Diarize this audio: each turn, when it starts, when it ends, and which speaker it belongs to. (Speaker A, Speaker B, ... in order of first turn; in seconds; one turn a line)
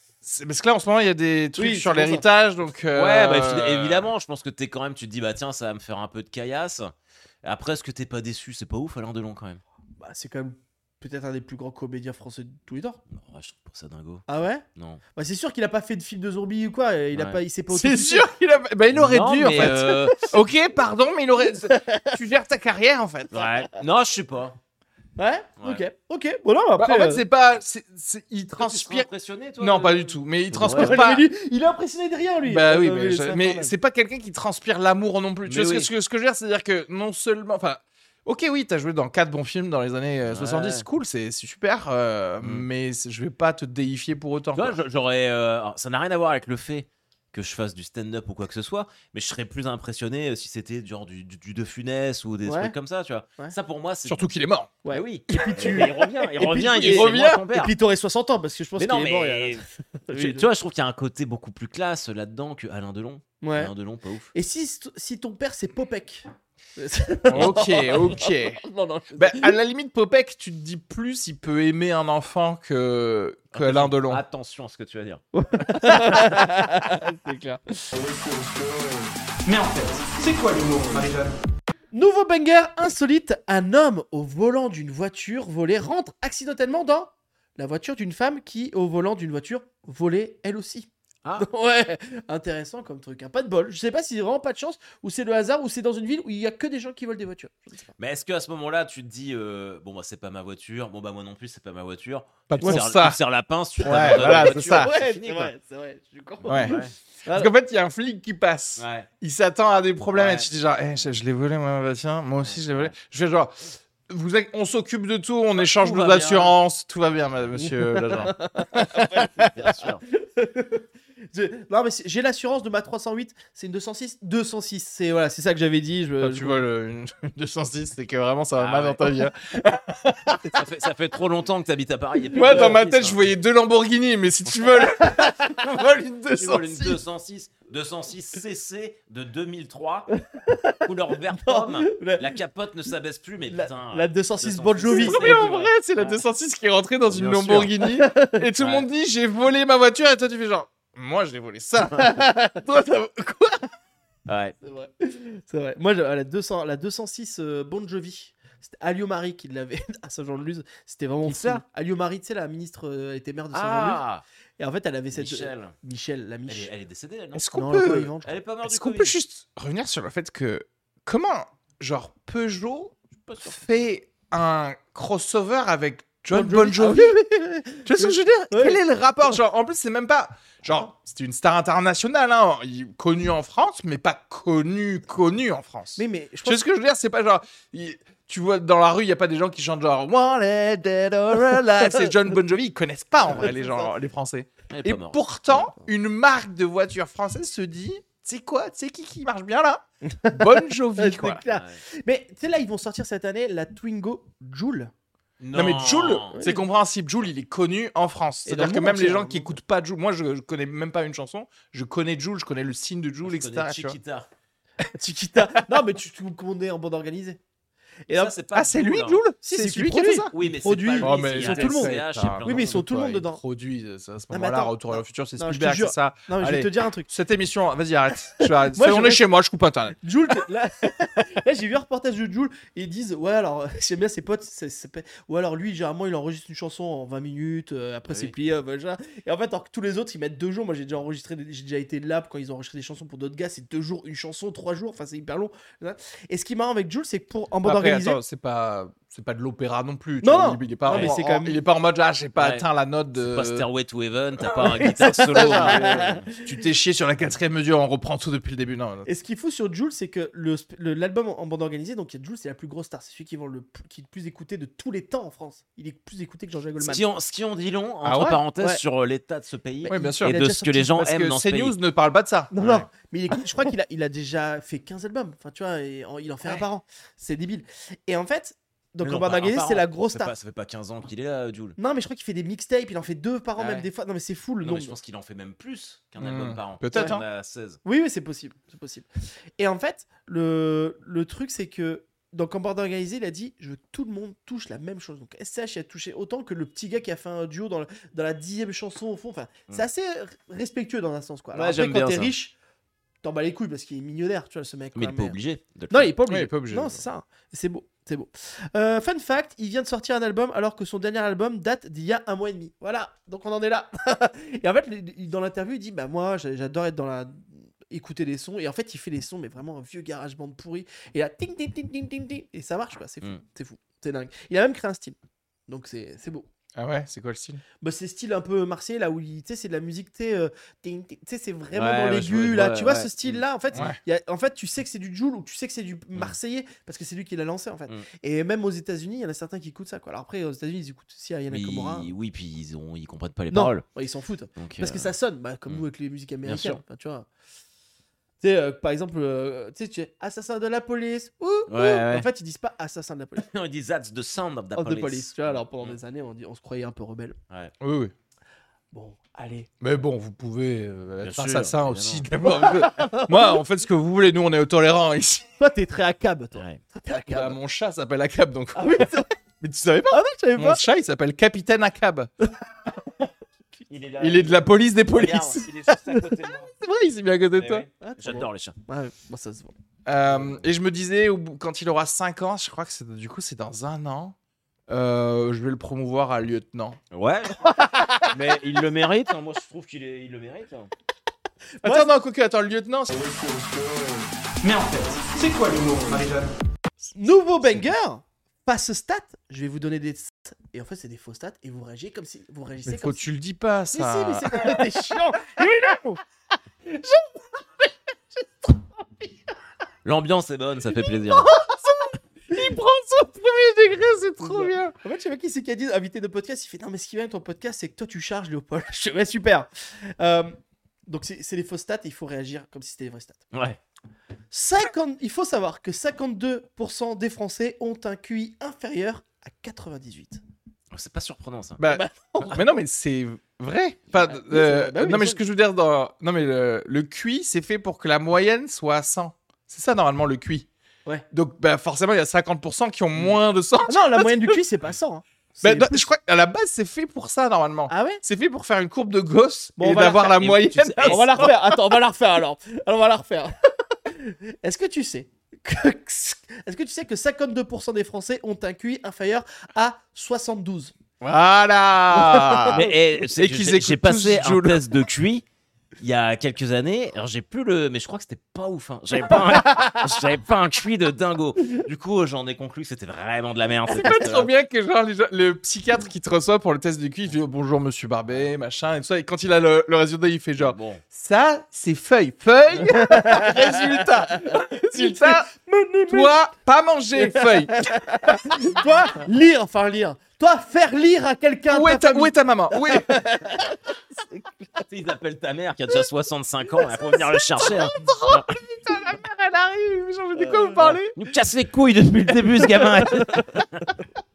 Speaker A: 0.2-4.1
Speaker B: 1.6-2.2
Speaker C: 2.9-6.9
Speaker C: 7.4-9.6
Speaker B: 10.0-13.0
Speaker C: 13.1-15.0
Speaker B: 14.3-18.3
Speaker C: 17.1-17.4
Speaker A: 17.7-23.3
Speaker C: 18.9-20.3
Speaker B: 21.5-22.2
Speaker C: 23.3-24.6
Speaker B: 25.2-27.2
Speaker A: 26.8-29.1
Speaker C: 28.6-31.0
Speaker A: 29.6-31.2
Speaker B: 30.7-33.7
Speaker A: 32.5-44.8
Speaker C: 35.5-35.9
Speaker C: 40.3-40.9
Speaker C: 42.4-42.6
Speaker C: 44.5-54.3
Speaker B: 52.4-52.7
Speaker A: 54.0-54.7
Speaker B: 54.8-60.5
Speaker C: 54.9-57.7
Speaker A: 56.7-57.4
Speaker C: 58.8-64.3
Speaker B: 63.4-63.7
Speaker B: 64.3-69.5
Speaker C: 67.3-67.6
Speaker A: 67.3-68.6
Speaker A: 69.1-74.2
Speaker C: 73.5-75.2
Speaker B: 75.3-77.9
Speaker D: 79.5-81.4
Speaker B: 81.9-97.9
Speaker C: 98.0-105.5
Speaker A: 102.5-103.2
Speaker B: 102.6-102.8
Speaker A: 103.8-104.9
Speaker B: 103.8-107.5
Speaker C: 106.4-106.9
Speaker A: 106.5-119.5
Speaker C: 108.8-109.1
Speaker C: 110.1-110.5
Speaker C: 112.4-112.9
Speaker C: 115.6-116.5
Speaker B: 117.6-126.6
Speaker C: 119.1-120.0
Speaker A: 126.2-130.5
Speaker C: 128.6-129.2
Speaker C: 130.4-133.2
Speaker A: 132.3-137.0
Speaker B: 132.4-132.8
Speaker C: 134.5-135.2
Speaker C: 136.4-140.1
Speaker B: 140.1-142.3
Speaker C: 140.8-146.2
Speaker B: 143.5-145.4
Speaker A: 144.9-153.7
Speaker C: 147.1-147.7
Speaker B: 147.8-148.4
Speaker C: 148.6-148.8
Speaker B: 151.9-152.6
Speaker C: 154.3-154.6
Speaker B: 154.6-164.0
Speaker C: 163.5-164.2
Speaker B: 164.6-166.7
Speaker C: 165.1-165.7
Speaker C: 166.5-167.5
Speaker A: 167.3-168.1
Speaker B: 167.5-168.3
Speaker C: 168.2-169.1
Speaker A: 168.6-177.2
Speaker B: 176.3-178.8
Speaker A: 177.8-201.4
Speaker B: 185.9-186.6
Speaker B: 193.2-193.9
Speaker C: 194.7-195.2
Speaker B: 200.1-204.9
Speaker C: 201.5-201.8
Speaker C: 205.4-206.4
Speaker A: 205.5-214.0
Speaker B: 206.3-206.6
Speaker B: 208.4-209.5
Speaker C: 213.2-214.3
Speaker B: 214.9-217.4
Speaker B: 218.1-218.3
Speaker C: 218.1-219.2
Speaker A: 218.5-220.3
Speaker B: 219.4-223.4
Speaker C: 220.3-222.8
Speaker A: 221.0-230.0
Speaker B: 224.3-227.1
Speaker B: 228.4-229.2
Speaker B: 230.0-248.2
Speaker A: 247.6-253.6
Speaker B: 250.2-251.6
Speaker C: 250.9-251.2
Speaker C: 252.4-256.3
Speaker B: 254.5-256.4
Speaker A: 255.0-259.1
Speaker B: 259.1-267.0
Speaker C: 266.8-271.7
Speaker A: 268.0-268.4
Speaker B: 268.5-268.8
Speaker B: 269.8-270.9
Speaker A: 269.9-272.5
Speaker B: 272.5-280.3
Speaker C: 272.6-272.9
Speaker C: 279.0-281.8
Speaker B: 281.8-285.0
Speaker C: 283.6-283.9
Speaker C: 284.6-287.8
Speaker A: 286.2-287.2
Speaker B: 286.9-287.2
Speaker B: 287.8-302.5
Speaker C: 301.5-302.3
Speaker B: 303.2-305.4
Speaker C: 304.9-306.1
Speaker B: 305.9-325.2
Speaker A: 306.3-307.0
Speaker B: 325.7-326.5
Speaker A: 326.8-327.6
Speaker B: 327.8-342.1
Speaker C: 331.7-333.4
Speaker A: 333.7-334.0
Speaker C: 341.5-343.8
Speaker B: 343.5-347.3
Speaker C: 344.6-345.1
Speaker C: 346.4-346.8
Speaker B: 348.4-353.5
Speaker C: 351.7-352.3
Speaker C: 353.4-356.0
Speaker B: 354.7-357.4
Speaker A: 357.8-358.1
Speaker B: 358.9-359.7
Speaker A: 359.8-365.5
Speaker C: 361.2-362.3
Speaker B: 362.4-363.6
Speaker B: 365.6-367.6
Speaker C: 366.6-366.8
Speaker A: 367.3-372.3
Speaker B: 368.7-369.3
Speaker B: 370.1-370.8
Speaker C: 373.9-376.7
Speaker A: 374.2-375.7
Speaker A: 376.8-377.9
Speaker C: 377.6-378.8
Speaker B: 378.0-379.7
Speaker A: 380.1-384.3
Speaker C: 380.3-380.6
Speaker A: 384.9-387.0
Speaker C: 387.1-390.9
Speaker B: 387.6-388.4
Speaker B: 391.8-392.1
Speaker A: 391.8-393.2
Speaker D: 394.6-396.5
Speaker B: 397.1-403.2
Speaker A: 402.9-405.0
Speaker B: 403.9-406.1
Speaker A: 405.8-406.1
Speaker B: 408.6-409.3
Speaker C: 410.0-411.5
Speaker B: 411.3-411.9
Speaker A: 411.9-414.9
Speaker B: 414.4-423.4
Speaker C: 423.5-423.8
Speaker B: 424.5-430.4
Speaker C: 430.9-431.8
Speaker A: 431.8-440.7
Speaker B: 431.9-432.6
Speaker B: 434.2-435.4
Speaker A: 441.3-444.5
Speaker B: 443.9-446.1
Speaker A: 445.6-451.5
Speaker B: 447.9-448.2
Speaker B: 449.8-450.5
Speaker C: 450.3-451.5
Speaker B: 451.0-460.9
Speaker A: 461.2-464.8
Speaker B: 462.1-462.9
Speaker C: 462.7-465.4
Speaker C: 466.0-474.5
Speaker B: 469.3-470.1
Speaker A: 473.9-485.5
Speaker C: 480.6-481.0
Speaker B: 482.8-486.3
Speaker A: 486.1-488.6
Speaker B: 487.1-494.8
Speaker A: 491.7-493.2
Speaker C: 494.9-498.5
Speaker B: 496.9-497.3
Speaker A: 497.6-501.1
Speaker B: 500.4-501.0
Speaker C: 501.1-503.9
Speaker B: 502.7-503.5